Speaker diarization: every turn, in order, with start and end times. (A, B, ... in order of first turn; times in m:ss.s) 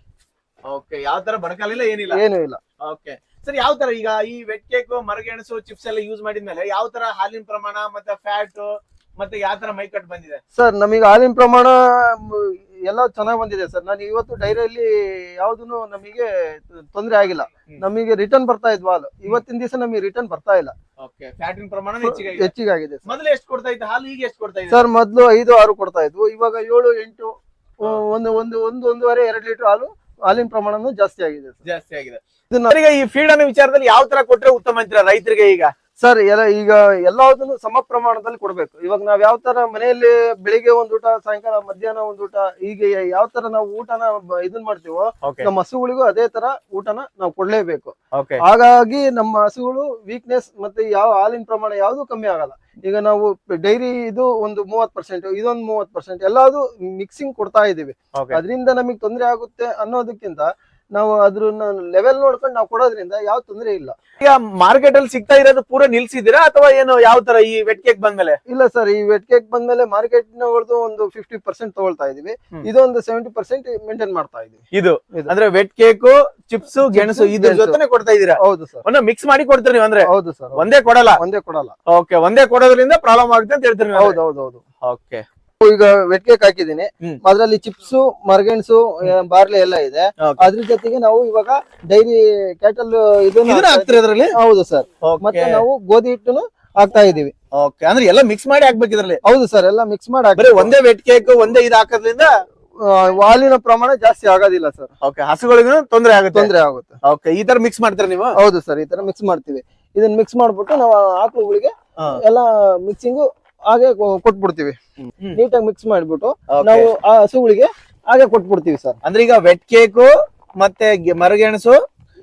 0:00.7-0:02.2 A
0:02.1-0:02.6 B
0:02.8-0:10.4 A
0:10.5-0:20.7 B
0:21.0-0:22.5 A
0:22.0-0:23.1 B
0:23.0-0:24.8 A
0:24.7-0:31.6 B
0:31.6-0:35.7 A
0:36.0-1:04.0 B
0:45.2-0:45.5 A
0:48.1-0:48.4 A
1:04.2-1:08.4 A
1:08.5-1:15.3 B
1:14.7-1:21.2 A
1:16.9-1:17.8 B
1:18.4-1:18.8 B
1:20.0-1:20.6 B
1:21.1-1:21.7 B
1:21.9-1:24.2 A
1:23.9-1:24.6 B
1:24.8-1:25.2 A
1:25.6-1:37.3 B
1:30.2-1:30.4 A
1:33.4-1:34.3 A
1:35.0-1:35.6 A
1:37.5-1:39.2 A
1:39.2-1:40.7 B
1:40.3-1:42.3 A
1:42.8-1:44.9 B
1:45.0-1:46.5 A
1:46.3-1:47.0 B
1:47.0-1:48.4 A
1:48.4-1:59.0 B
1:56.5-1:56.9 A
1:59.0-2:01.8 A